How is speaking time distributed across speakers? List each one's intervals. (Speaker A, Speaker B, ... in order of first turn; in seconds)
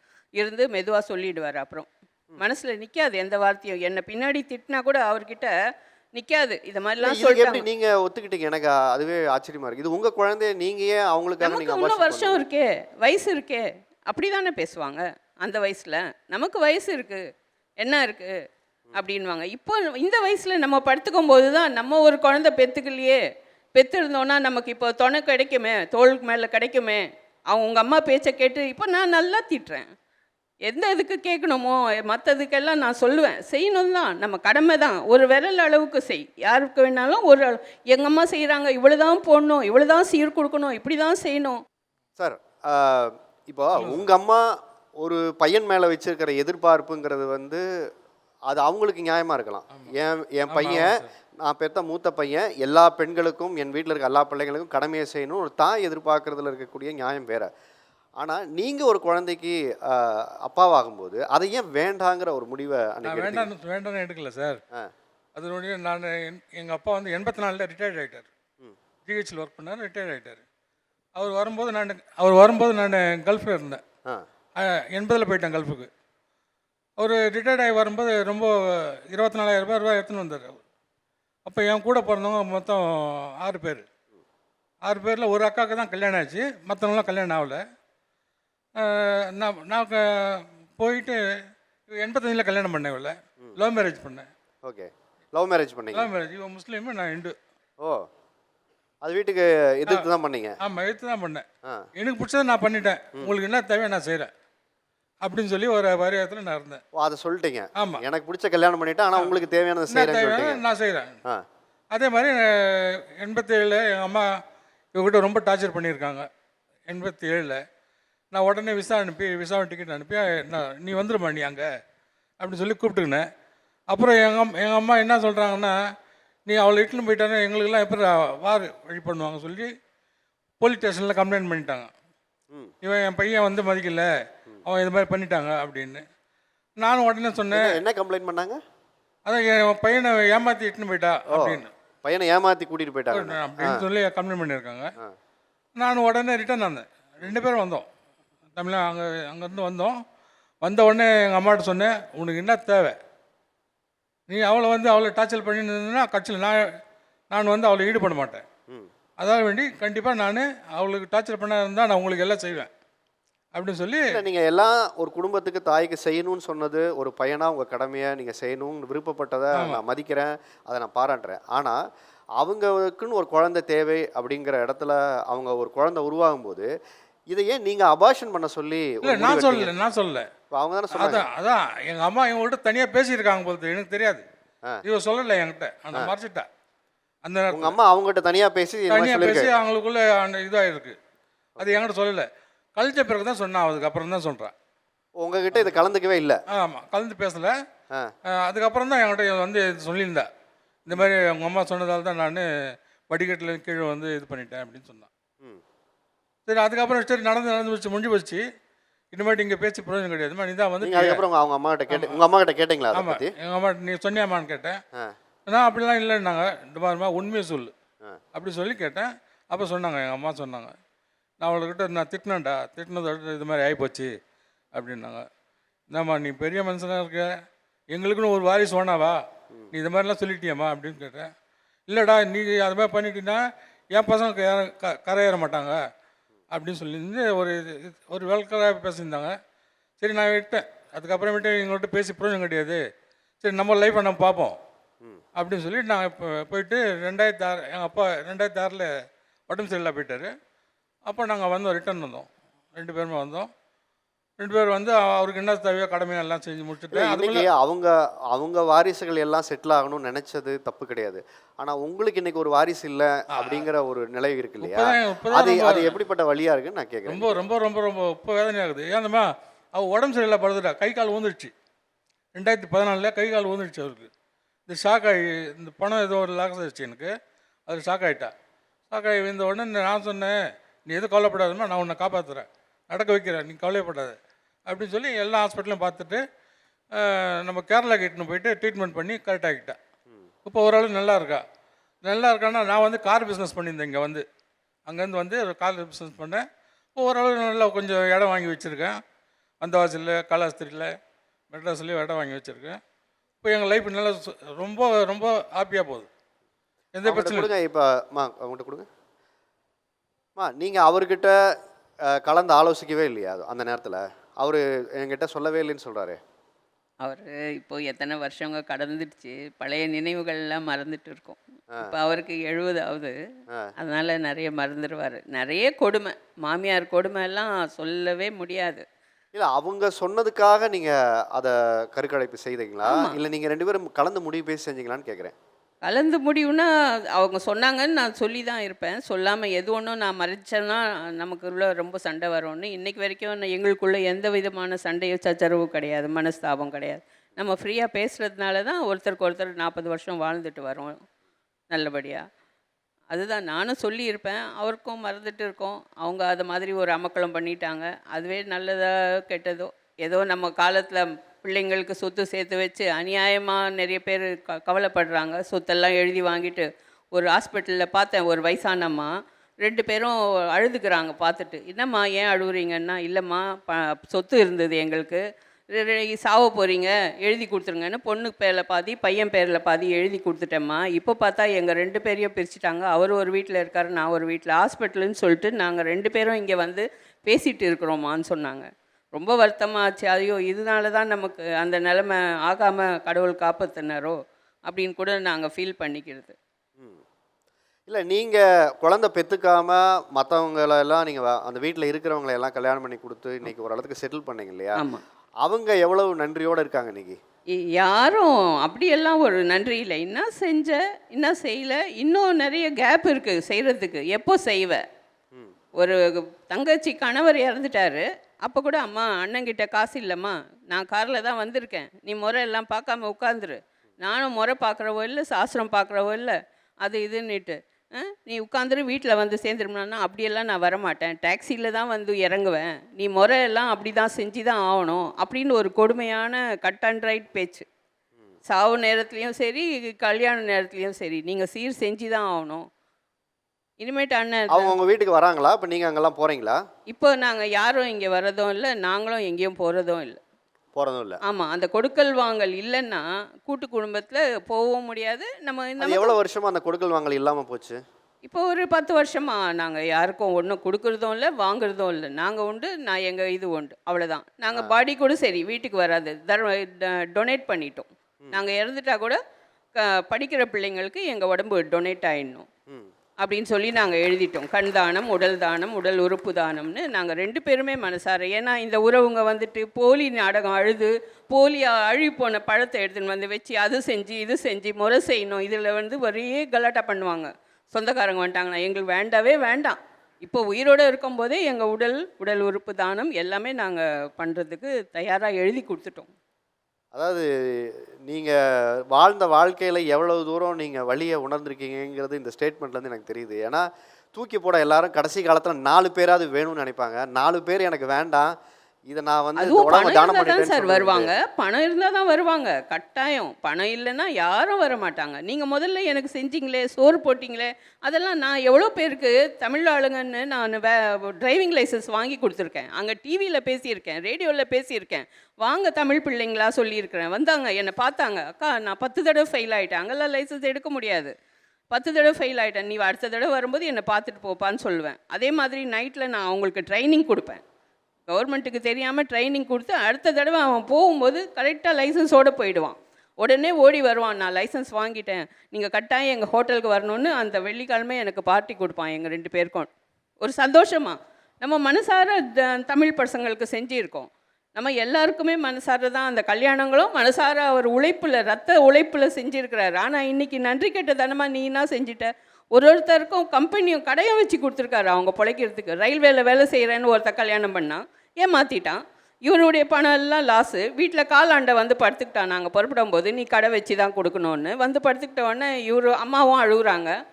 Speaker A: 0.4-5.5, 6.1-7.6, 11.4-17.2, 17.8-18.3, 18.9-23.2, 23.7-29.8, 30.6-41.6, 317.0-323.1, 323.8-328.8, 332.9-333.2, 335.8-351.0, 351.7-352.2, 353.1-369.1, 369.6-375.2, 375.7-394.1, 394.7-396.4, 404.7-405.0, 407.6-414.8, 416.5-437.6, 438.5-442.6, 443.8-444.8, 446.9-450.2, 451.2-456.1, 458.2-469.2, 469.8-472.4, 473.2-496.1, 509.4-531.1, 531.7-537.4, 538.1-549.7, 550.2-576.9
Speaker B: 7.0-12.4, 42.2-47.6, 48.5-57.5, 58.2-63.5, 94.6-96.1, 99.0-100.6, 106.9-110.6, 137.5-138.6, 141.3-143.8, 164.1-171.8, 172.4-176.7, 177.3-179.7, 180.5-181.2, 187.5-189.5, 191.6-191.8, 195.2-196.4, 210.8-213.3, 256.9-267.4, 307.0-308.9, 310.4-311.5, 312.1-316.2, 329.3-335.3, 397.9-404.8, 405.4-407.2, 444.5-446.6, 450.7-451.2, 455.8-457.8, 496.9-508.3, 508.9-511.1
Speaker C: 43.7-44.0, 50.5-51.1, 63.0-64.6, 65.3-68.3, 69.0-70.4, 71.2-73.8, 74.5-75.9, 77.0-80.6, 81.5-83.8, 84.8-87.6, 88.8-91.2, 91.9-94.2, 95.9-97.3, 100.6-101.4, 102.0-104.3, 105.2-106.8, 107.8-108.0, 109.9-111.1, 111.9-114.2, 114.9-116.3, 116.9-117.6, 118.3-121.7, 122.4-123.2, 123.9-125.7, 126.5-129.7, 130.6-131.9, 132.8-134.1, 134.6-136.0, 136.8-137.8, 139.2-141.7, 143.1-144.9, 145.8-147.8, 148.5-149.9, 150.6-152.9, 154.3-156.6, 157.3-158.4, 159.2-162.7, 163.5-164.1, 169.5-169.8, 179.0-180.2, 180.9-184.2, 184.8-186.5, 187.2-187.8, 188.9-190.9, 191.6-194.5, 196.5-197.5, 198.3-200.3, 200.8-202.4, 203.1-205.1, 206.5-208.4, 209.1-211.2, 211.9-212.2, 212.9-214.8, 215.5-217.7, 218.3-220.7, 221.4-224.1, 224.7-225.2, 225.9-227.3, 227.9-229.2, 229.7-231.3, 231.9-233.4, 233.9-235.8, 236.5-239.3, 240.0-242.8, 243.4-244.6, 245.3-248.9, 249.5-250.3, 251.1-253.5, 254.4-257.5, 263.3-263.7, 264.6-266.0, 267.1-271.5, 272.3-274.1, 274.7-277.1, 277.7-278.3, 278.9-280.4, 280.9-286.2, 286.9-289.8, 290.4-291.4, 292.0-294.2, 294.9-296.4, 296.9-298.9, 299.6-300.9, 301.5-302.8, 303.4-306.1, 306.9-307.5